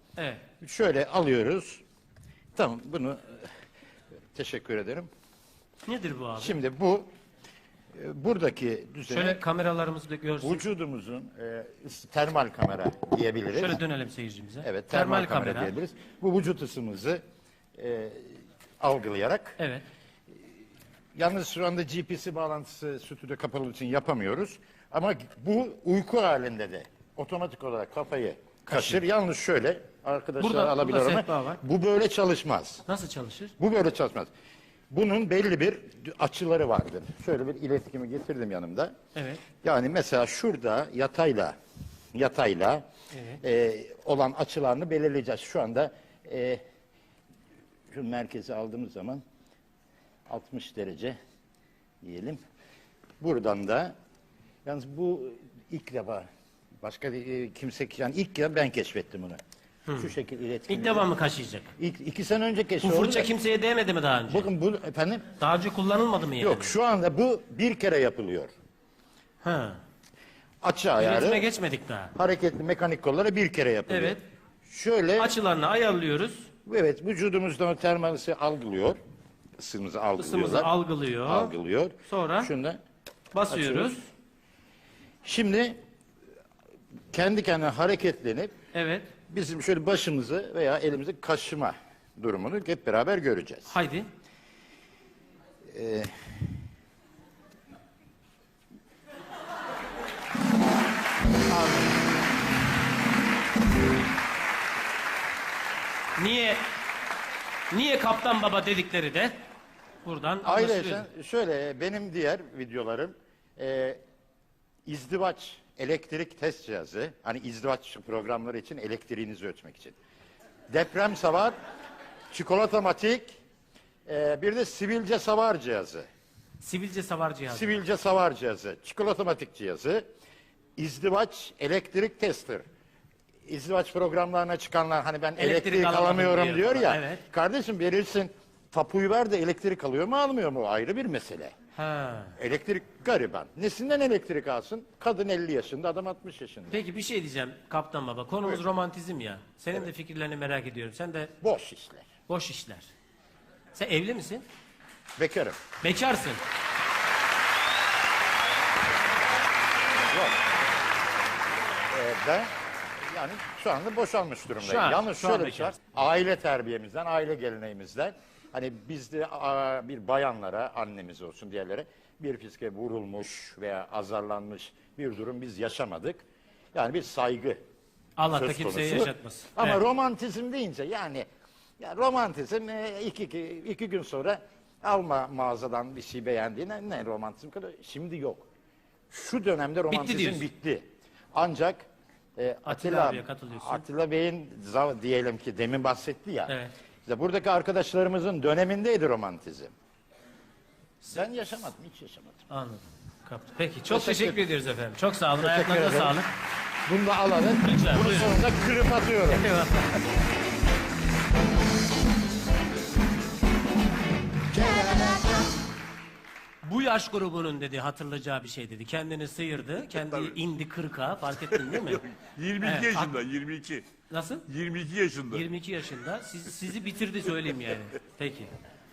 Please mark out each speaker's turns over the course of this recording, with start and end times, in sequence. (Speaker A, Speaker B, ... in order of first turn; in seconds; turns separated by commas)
Speaker A: 0.2-0.4, Speaker B: 0.6-1.8, Speaker B: 2.5-3.5, Speaker B: 4.3-5.1, Speaker A: 5.8-6.6, Speaker B: 6.4-7.1, Speaker B: 7.9-9.4, Speaker A: 9.1-10.6, Speaker B: 10.4-13.8, Speaker A: 13.5-15.7, Speaker B: 14.6-17.2, Speaker B: 17.8-19.6, Speaker A: 19.6-19.8, Speaker B: 21.1-32.8, Speaker A: 28.7-29.0, Speaker A: 30.4-31.6, Speaker A: 32.9-33.5, Speaker B: 33.6-34.3, Speaker B: 34.9-38.9, Speaker A: 39.1-39.4, Speaker B: 39.6-41.5, Speaker B: 42.1-42.8, Speaker A: 43.1-43.4, Speaker B: 43.4-46.6, Speaker B: 47.9-49.2, Speaker B: 50.3-51.1, Speaker B: 52.0-52.4, Speaker B: 53.2-53.9, Speaker B: 54.6-56.2, Speaker B: 56.8-59.4, Speaker A: 59.9-60.1, Speaker B: 60.0-61.1, Speaker A: 60.7-61.7, Speaker B: 61.8-63.3, Speaker A: 62.8-64.5, Speaker B: 64.3-65.2, Speaker A: 65.4-66.7, Speaker B: 66.4-68.5, Speaker A: 69.4-69.8, Speaker B: 70.6-71.4, Speaker A: 71.0-72.1, Speaker B: 72.1-75.3, Speaker A: 73.9-74.2, Speaker A: 75.2-76.5, Speaker B: 76.6-79.0, Speaker B: 79.6-80.7, Speaker A: 80.2-81.5, Speaker B: 81.2-82.8, Speaker A: 82.0-82.5, Speaker A: 83.3-84.0, Speaker B: 83.5-84.0, Speaker B: 85.2-85.8, Speaker B: 87.1-88.5, Speaker A: 88.7-89.1, Speaker B: 89.3-93.7, Speaker A: 93.7-94.0, Speaker B: 95.7-96.1, Speaker A: 101.5-102.0, Speaker A: 106.2-106.6, Speaker A: 107.7-109.3, Speaker A: 110.0-111.1, Speaker B: 110.4-114.0, Speaker B: 114.8-120.0, Speaker B: 120.7-121.5, Speaker B: 122.3-123.3, Speaker B: 124.0-126.0, Speaker A: 126.6-127.8, Speaker B: 127.5-130.1, Speaker B: 130.8-132.6, Speaker B: 133.4-141.5, Speaker A: 135.3-137.2, Speaker A: 141.7-142.3, Speaker B: 142.4-146.8, Speaker A: 146.7-151.3, Speaker B: 151.4-152.1, Speaker A: 152.3-152.9, Speaker A: 153.7-154.4, Speaker B: 155.2-155.6, Speaker A: 155.8-156.4, Speaker B: 160.1-160.4, Speaker B: 161.9-176.2, Speaker A: 164.6-165.8, Speaker B: 176.7-177.6, Speaker A: 178.2-179.8, Speaker B: 178.2-181.3, Speaker B: 181.8-188.5, Speaker B: 189.1-191.8, Speaker A: 189.9-190.4, Speaker B: 192.4-196.5, Speaker A: 192.6-193.8, Speaker A: 196.5-196.7, Speaker B: 197.1-199.7, Speaker B: 201.1-202.4, Speaker A: 202.5-206.3, Speaker B: 203.9-204.4, Speaker B: 205.4-206.1, Speaker B: 206.9-209.4, Speaker A: 207.6-208.4, Speaker A: 209.3-210.0, Speaker B: 214.5-215.4, Speaker A: 216.6-222.1, Speaker C: 222.2-223.8, Speaker A: 222.6-223.2, Speaker A: 224.1-224.4, Speaker C: 224.5-225.4, Speaker A: 225.3-228.5